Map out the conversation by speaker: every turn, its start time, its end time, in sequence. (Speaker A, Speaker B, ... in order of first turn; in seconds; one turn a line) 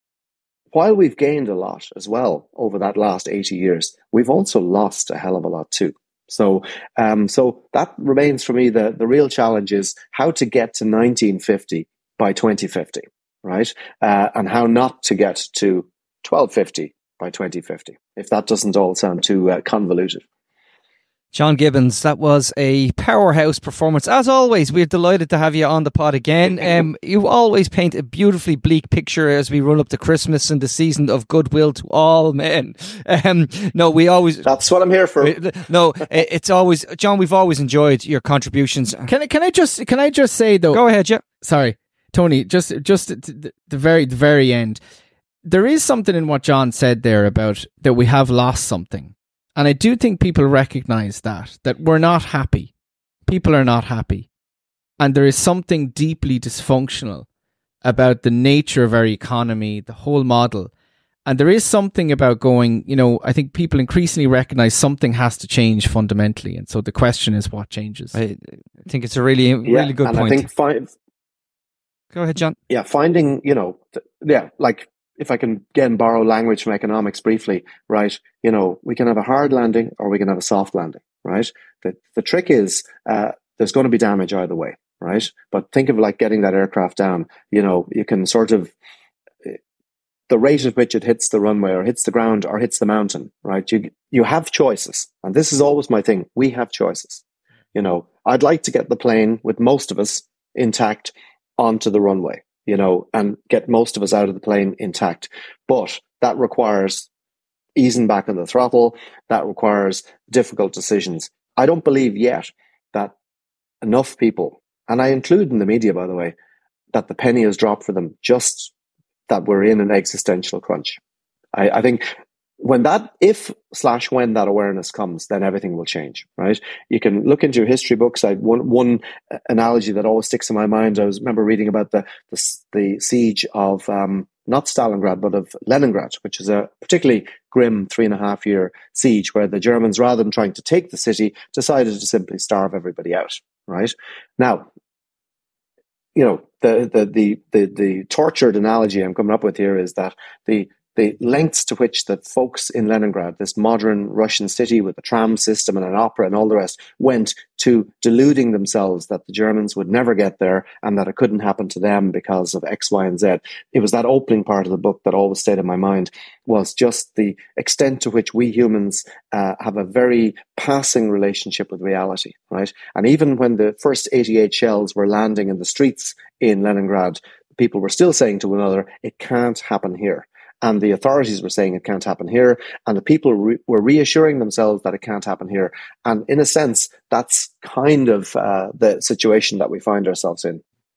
Speaker A: 0.7-20.2
Speaker B: 21.3-34.5
Speaker A: 34.5-35.4
Speaker B: 35.2-39.1
Speaker C: 39.1-40.8
Speaker B: 40.7-41.2
Speaker C: 41.4-44.8
Speaker C: 45.5-52.7
Speaker C: 53.3-54.3
Speaker C: 55.0-57.3
Speaker C: 57.8-60.7
Speaker C: 61.3-68.1
Speaker B: 68.1-70.5
Speaker A: 69.7-70.9
Speaker B: 72.1-72.6
Speaker A: 72.7-88.7
Speaker A: 90.3-97.2
Speaker A: 97.8-107.1
Speaker A: 107.8-113.1
Speaker A: 113.8-116.3
Speaker A: 116.9-118.7
Speaker A: 119.3-121.0
Speaker A: 121.5-122.0
Speaker A: 122.6-144.7
Speaker A: 146.2-190.6